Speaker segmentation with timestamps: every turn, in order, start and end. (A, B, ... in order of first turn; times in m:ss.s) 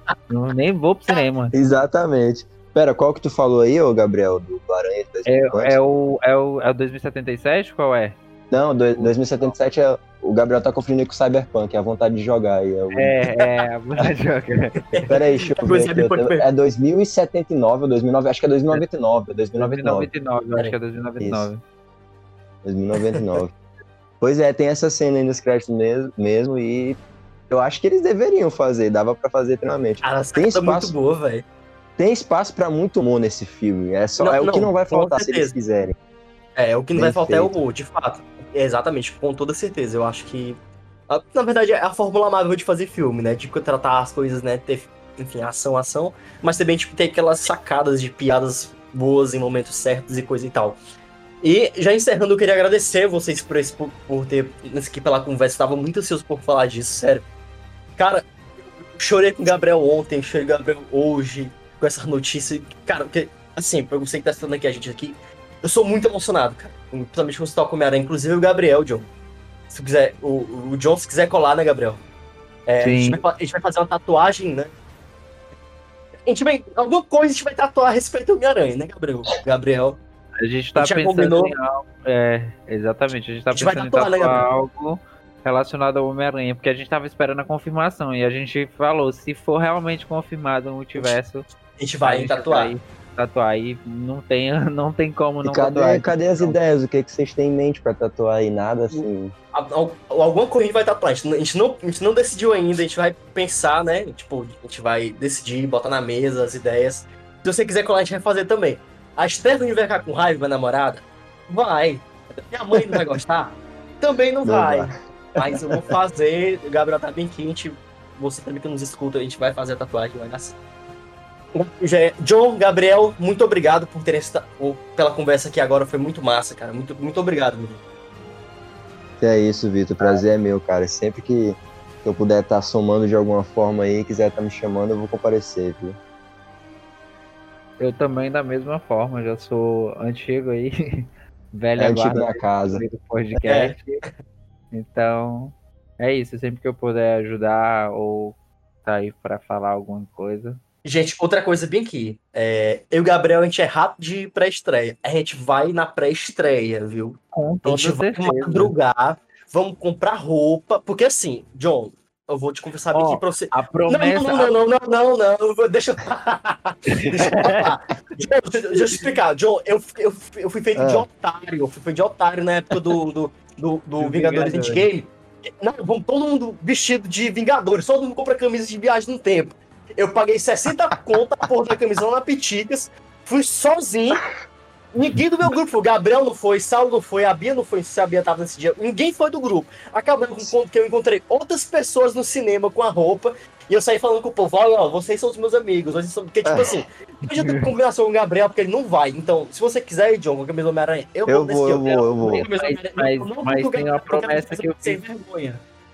0:00.3-0:01.5 A
0:01.5-0:05.8 B
0:05.2-0:08.2 A
0:08.5-0:13.2 B
0:12.9-0:15.1 A
0:14.9-0:16.4 C
0:15.1-0:20.1 B
0:19.6-0:21.6 A
0:21.2-0:21.5 B
0:22.6-0:23.5 B
0:24.2-0:27.0 B
0:27.5-0:30.9 B
0:30.0-0:31.4 C
0:32.0-0:36.0 B
0:34.2-0:35.5 C
0:36.6-0:50.8 C
0:36.9-0:37.6 B
0:51.4-0:57.2 C
0:58.0-1:09.1 C
1:09.7-1:12.0 C
1:12.7-1:14.7 C
1:12.8-1:13.2 A
1:16.2-1:20.0 C
1:20.4-1:31.4 A
1:20.8-1:21.5 C
1:23.5-1:24.4 C
1:31.8-1:32.7 C
1:32.0-1:36.6 A
1:35.4-1:39.3 B
1:38.9-2:00.6 C
1:54.4-1:55.6 B
2:01.5-2:07.8 C
2:09.2-2:16.0 B
2:17.8-2:24.0 A
2:21.8-2:22.8 B
2:23.4-2:23.8 C
2:24.7-2:30.6 A
2:30.8-3:04.2 C
2:37.3-2:38.7 A
2:42.9-2:44.5 A
2:46.9-2:47.7 A
2:50.8-2:51.0 B
2:54.0-2:54.8 B
2:54.4-2:54.8 A
3:04.9-3:25.6 C
3:16.4-3:16.8 B
3:17.3-3:17.6 A
3:21.2-3:22.5 B
3:22.2-3:25.0 A